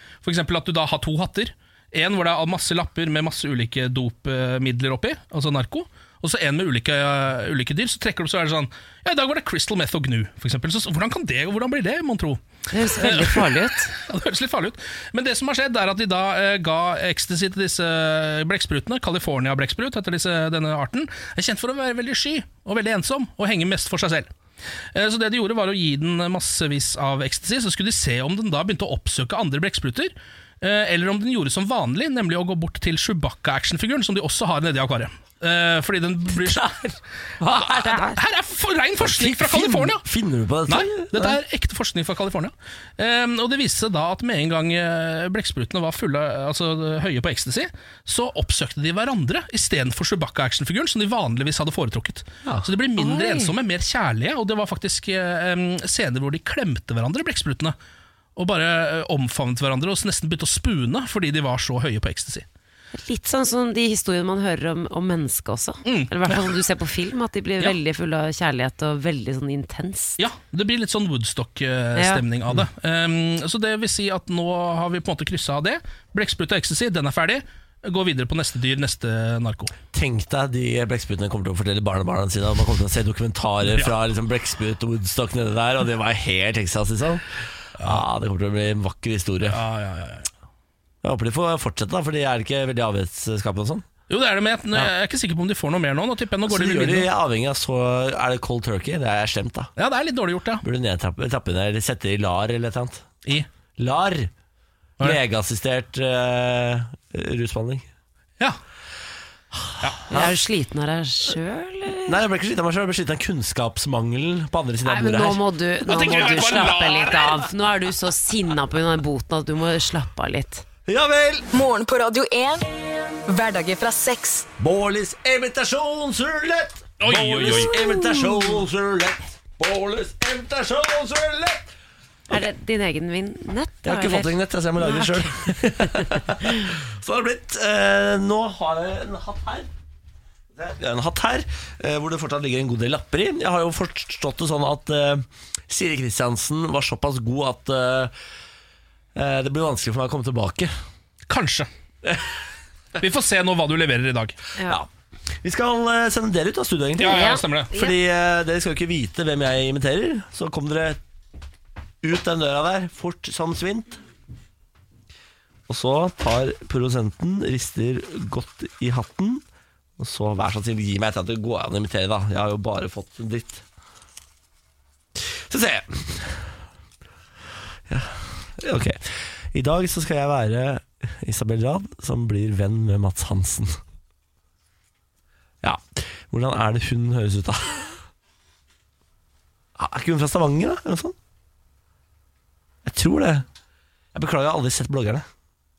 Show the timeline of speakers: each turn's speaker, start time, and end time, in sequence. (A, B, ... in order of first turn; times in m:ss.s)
0:00.2-0:24.3 A
0:12.7-0:13.9 B
0:24.9-0:36.9 A
0:37.5-0:38.2 B
0:37.6-0:40.0 A
0:39.0-0:41.4 C
0:40.7-0:57.7 A
0:53.0-0:53.6 B
0:58.4-1:02.4 A
1:02.9-1:10.2 B
1:05.8-1:06.5 A
1:10.2-1:19.7 A
1:11.9-1:12.2 B
1:19.9-1:27.2 C
1:27.8-1:29.6 C
1:29.5-1:30.3 A
1:31.0-1:33.8 C
1:34.1-1:37.1 A
1:36.4-1:39.7 C
1:39.8-1:40.6 A
1:40.6-1:43.0 C
1:43.8-1:44.3 C
1:45.0-1:47.8 C
1:49.6-1:50.3 C
1:50.1-1:52.2 B
1:52.0-1:55.4 C
1:54.8-2:00.6 B
1:55.8-1:57.5 A
2:00.9-2:01.5 C
2:01.5-2:02.6 D
2:03.3-2:04.5 D
2:04.6-2:11.7 C
2:07.0-2:07.7 A
2:07.8-2:08.4 B
2:12.3-2:16.5 B
2:13.8-2:19.7 C
2:20.6-2:28.1 C
2:29.1-2:30.7 C
2:31.3-2:31.7 A
2:33.0-2:34.4 A
2:34.6-2:34.8 B
2:35.4-2:41.0 C
2:37.0-2:37.7 A
2:37.0-2:37.9 B
2:42.0-2:44.0 C
2:45.7-2:49.4 C
2:50.0-2:53.6 C
2:55.2-2:56.5 C
2:57.9-3:03.8 C
3:05.6-3:08.0 C
3:09.8-3:11.1 C
3:12.8-3:13.4 C
3:14.1-3:15.2 C